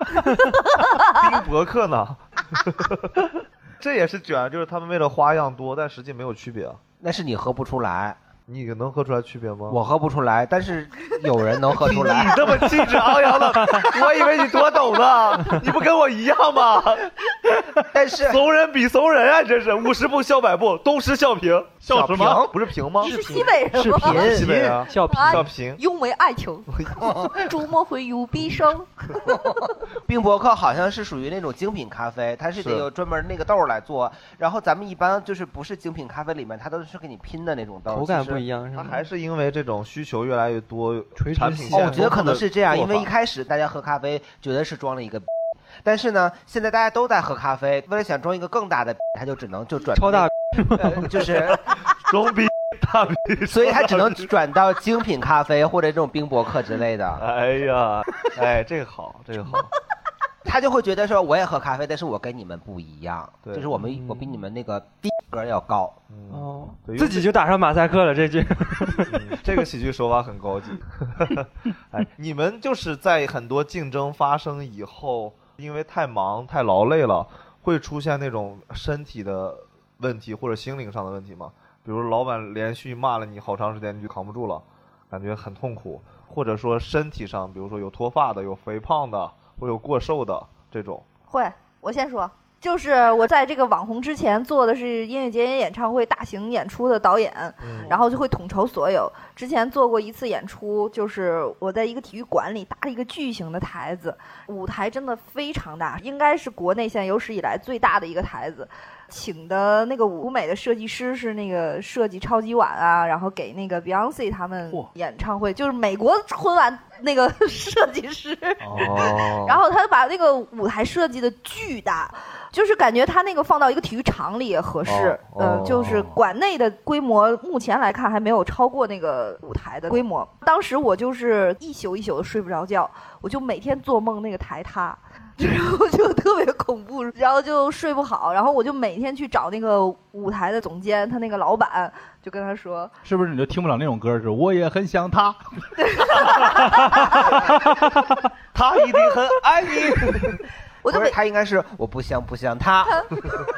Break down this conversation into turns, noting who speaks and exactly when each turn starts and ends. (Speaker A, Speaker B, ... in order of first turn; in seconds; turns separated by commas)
Speaker A: 0.1-1.2, Speaker B: 1.1-6.8, Speaker C: 7.0-8.2, Speaker B: 8.5-9.8, Speaker C: 9.7-12.7, Speaker B: 11.7-17.6, Speaker C: 17.9-18.4, Speaker B: 18.2-23.4, Speaker D: 21.8-22.5, Speaker C: 21.9-22.5, Speaker A: 23.0-24.3, Speaker E: 23.1-25.5, Speaker B: 24.0-25.8, Speaker C: 24.1-24.5, Speaker D: 24.2-24.7, Speaker A: 25.0-29.6, Speaker C: 27.0-27.4, Speaker C: 30.0-38.4, Speaker B: 32.6-32.9, Speaker E: 37.9-39.0, Speaker B: 38.8-43.1, Speaker E: 41.2-42.1, Speaker C: 41.7-45.3, Speaker C: 45.8-51.6, Speaker E: 50.0-51.1, Speaker B: 51.9-54.3, Speaker C: 53.5-57.2, Speaker B: 57.2-59.7, Speaker C: 60.5-66.0, Speaker B: 63.4-63.7, Speaker E: 63.9-64.3, Speaker B: 66.1-67.2, Speaker E: 66.3-69.4, Speaker B: 69.1-91.0, Speaker A: 91.3-142.9, Speaker B: 97.6-98.0, Speaker D: 118.6-119.1, Speaker B: 118.7-119.6, Speaker B: 124.8-126.0, Speaker D: 125.8-126.2, Speaker D: 143.0-148.2, Speaker A: 145.8-147.4, Speaker B: 148.5-150.4, Speaker A: 150.8-151.2, Speaker C: 150.9-153.1, Speaker A: 152.9-153.1